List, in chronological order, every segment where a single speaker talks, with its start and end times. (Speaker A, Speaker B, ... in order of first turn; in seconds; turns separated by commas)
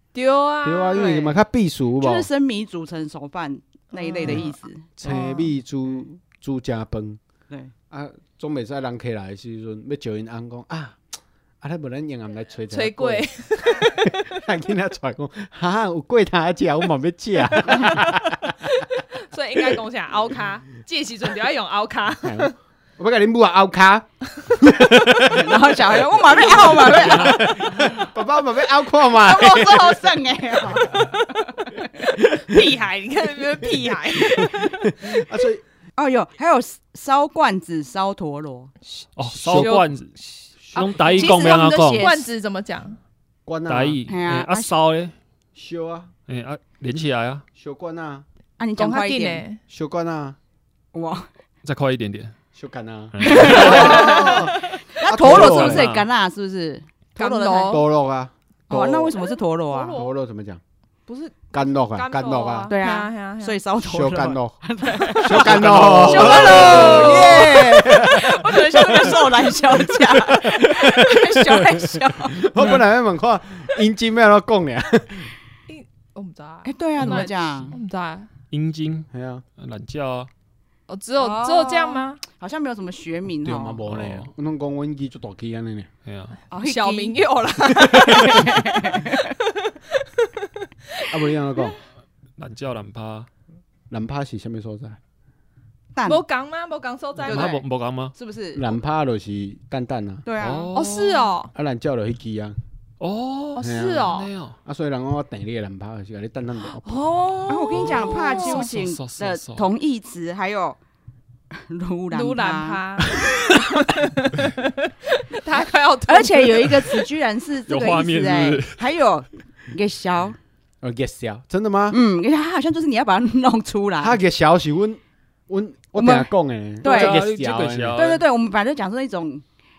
Speaker A: 0.1-1.4, Speaker B: 0.6-2.3, Speaker C: 1.0-1.3, Speaker C: 2.0-4.9, Speaker A: 3.9-5.5, Speaker B: 5.0-7.2, Speaker B: 7.9-11.0, Speaker B: 11.6-13.3, Speaker A: 12.7-14.3, Speaker B: 13.8-18.6, Speaker A: 17.7-22.5, Speaker B: 22.2-30.1, Speaker C: 25.3-27.9, Speaker C: 29.1-31.0, Speaker A: 30.8-34.5, Speaker C: 34.4-35.1, Speaker B: 34.9-35.6, Speaker C: 36.0-38.7, Speaker A: 38.9-43.0, Speaker D: 39.2-40.1, Speaker B: 39.4-39.8, Speaker B: 40.7-40.9, Speaker D: 40.7-42.1, Speaker C: 41.1-42.3, Speaker B: 43.5-44.0, Speaker D: 43.7-45.1, Speaker C: 44.1-44.7, Speaker B: 45.6-46.1, Speaker D: 46.3-47.4, Speaker B: 47.6-48.2, Speaker C: 48.6-49.4, Speaker A: 48.8-49.6, Speaker B: 49.7-50.4, Speaker C: 50.9-51.3, Speaker D: 51.6-52.3, Speaker B: 52.5-55.9, Speaker D: 53.1-54.2, Speaker C: 53.2-57.8, Speaker A: 53.6-54.2, Speaker D: 55.1-56.1, Speaker A: 57.2-57.9, Speaker B: 57.6-59.2, Speaker C: 58.7-60.0, Speaker A: 59.2-60.2, Speaker B: 59.9-60.6, Speaker A: 61.1-63.6, Speaker B: 61.5-62.7, Speaker C: 62.7-72.8, Speaker B: 63.8-64.6, Speaker B: 65.2-70.5, Speaker D: 65.3-67.5, Speaker A: 66.6-67.0, Speaker B: 72.4-75.3, Speaker A: 75.7-78.3, Speaker C: 76.6-77.8, Speaker D: 78.5-80.3, Speaker B: 79.1-79.4, Speaker A: 80.9-82.2, Speaker C: 81.2-83.9, Speaker B: 83.5-85.9, Speaker D: 83.9-84.3, Speaker D: 86.0-86.4, Speaker C: 86.5-87.2, Speaker A: 86.6-89.4, Speaker C: 88.0-89.1, Speaker A: 90.0-90.4, Speaker B: 91.1-91.8, Speaker D: 92.4-93.3, Speaker B: 93.9-95.0, Speaker C: 96.0-96.2, Speaker A: 96.1-97.5, Speaker D: 97.3-98.2, Speaker C: 97.3-98.8, Speaker B: 98.5-100.2, Speaker C: 100.2-100.7, Speaker D: 100.4-101.3, Speaker A: 100.7-101.5, Speaker B: 101.5-102.6, Speaker D: 103.0-104.6, Speaker A: 103.6-104.3, Speaker B: 103.6-107.0, Speaker A: 106.7-108.7, Speaker C: 107.5-110.8, Speaker D: 107.7-109.7, Speaker C: 111.5-112.8, Speaker A: 112.1-117.0, Speaker C: 116.1-120.4, Speaker D: 117.7-118.9, Speaker B: 120.8-122.0, Speaker C: 121.9-124.2, Speaker B: 124.0-128.0, Speaker C: 126.0-126.3, Speaker D: 126.8-128.2, Speaker C: 126.8-127.2, Speaker C: 128.0-129.4